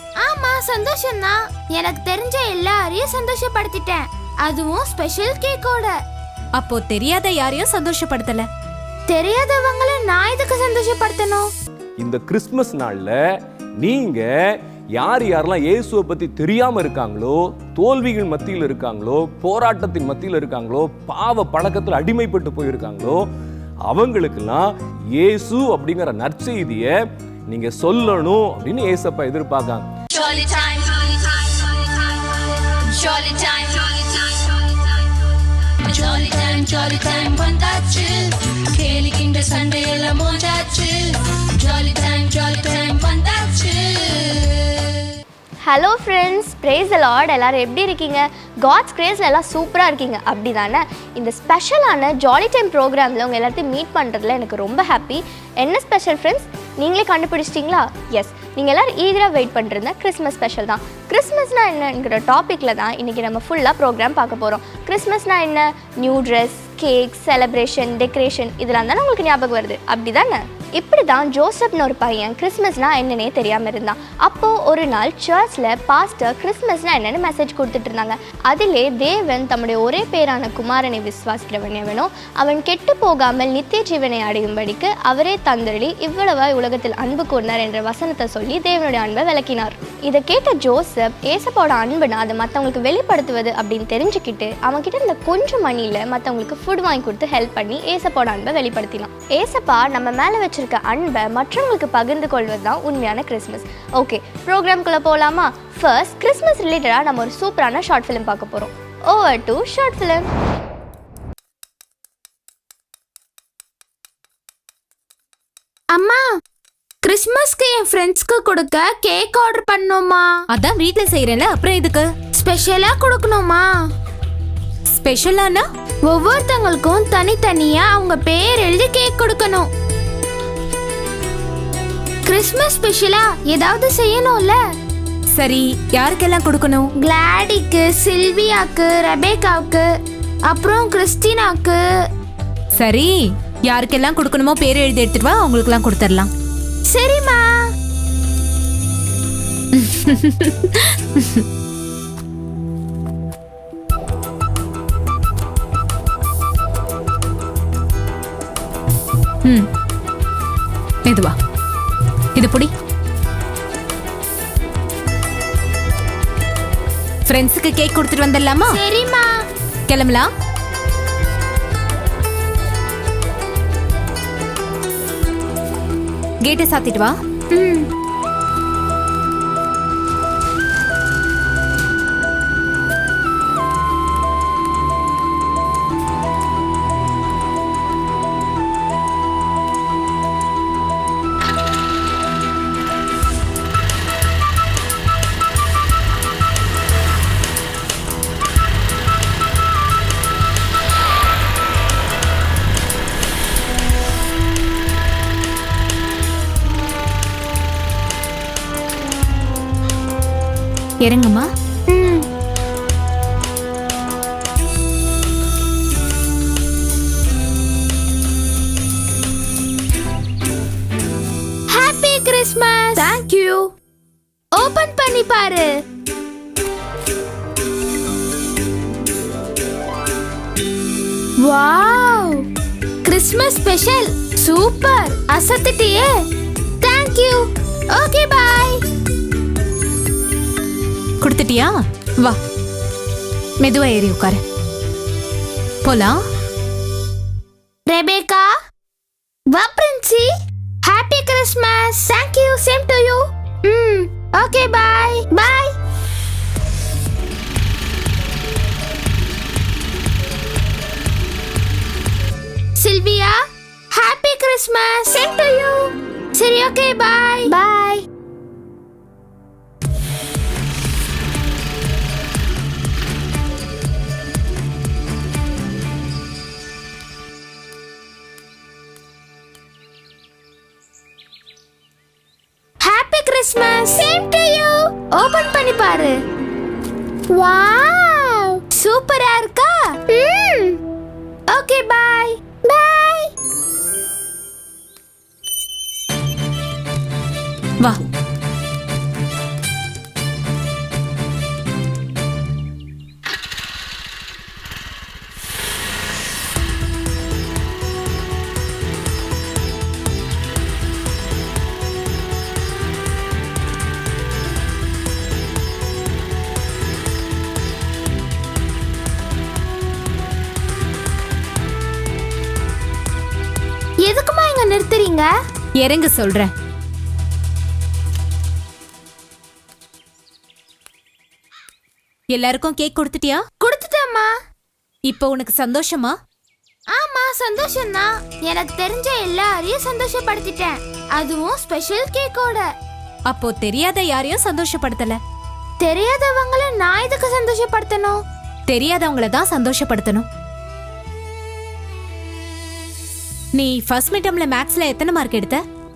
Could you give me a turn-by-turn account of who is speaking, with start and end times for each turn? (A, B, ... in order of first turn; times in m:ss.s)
0:00.2-0:06.0 A
0:06.5-0:08.5 B
0:09.1-0:11.5 A
0:12.0-0:13.2 C
0:13.8-0:23.2 C
0:23.9-0:27.0 C
0:27.5-0:29.8 C
0:30.1-0:34.8 D
0:35.8-0:44.3 D
0:45.6-1:50.3 E
1:55.9-1:56.3 A
1:57.0-2:00.4 A
2:00.5-2:02.1 B
2:02.3-2:03.8 A
2:04.9-2:05.6 B
2:06.1-2:09.7 A
2:12.2-2:14.6 A
2:15.3-2:16.9 B
2:17.0-2:19.9 A
2:20.5-2:21.8 A
2:22.8-2:26.3 B
2:26.9-2:27.7 A
2:29.7-2:31.4 B
2:41.0-2:41.4 B
2:42.3-2:42.7 B
2:47.3-2:48.8 B
2:48.7-2:49.4 A
2:49.9-2:50.3 B
2:56.4-2:57.2 B
2:57.5-2:57.8 A
3:31.0-3:31.5 B
3:31.9-3:32.2 A
3:41.7-3:43.7 A
3:44.5-3:45.7 A
3:51.4-3:52.4 A
3:53.0-3:56.2 A
3:56.8-3:58.8 A
4:01.2-4:02.4 B
4:03.6-4:04.4 B
4:05.8-4:06.2 B
4:07.9-4:08.5 A
4:09.5-4:10.3 A
4:10.8-4:15.8 A
4:22.8-4:23.4 A
4:23.9-4:28.0 A
4:42.8-4:46.1 A
4:47.3-4:50.8 A
4:51.5-4:53.3 A
5:24.0-5:25.3 A
5:25.8-5:26.5 B
5:32.3-5:33.4 B
5:33.6-5:34.3 A
5:35.1-5:36.2 B
5:36.9-5:42.7 A
5:43.3-5:45.2 B
5:45.8-5:48.2 A
5:48.7-5:50.2 B
5:53.5-5:55.6 B